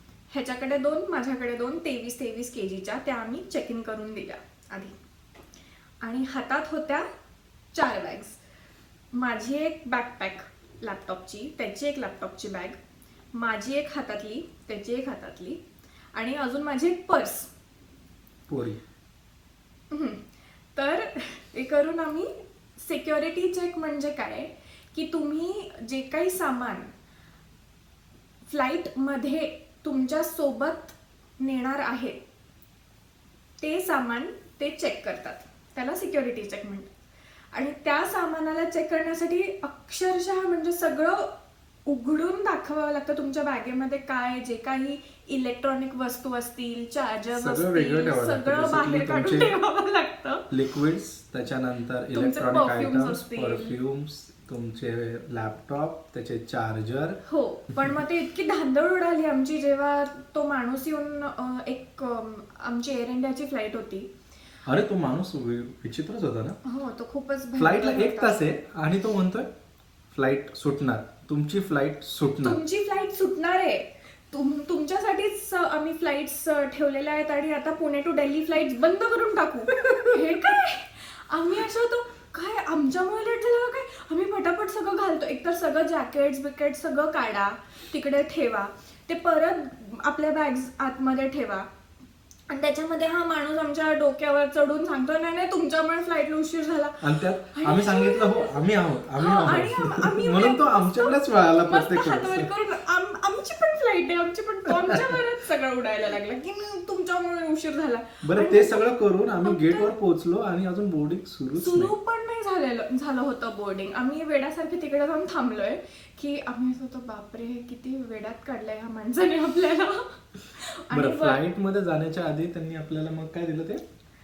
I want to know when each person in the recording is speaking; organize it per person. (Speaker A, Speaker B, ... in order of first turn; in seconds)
Speaker A: 0.3-5.0, 6.0-7.1, 7.7-8.4, 9.1-12.8, 13.3-15.6, 16.1-17.5, 19.9-26.9, 28.5-32.2, 33.6-36.9, 37.5-41.3, 41.9-50.5, 52.1-53.8, 57.2-64.1, 66.6-68.4, 72.4-91.7, 92.5-98.6, 99.2-108.9, 109.4-109.9, 111.6-121.4
Speaker B: 18.5-18.8, 47.4-49.5, 50.5-57.2, 64.7-66.6, 67.6-69.5, 70.1-72.6, 97.0-102.5, 104.9-105.1, 108.2-111.9, 120.9-123.8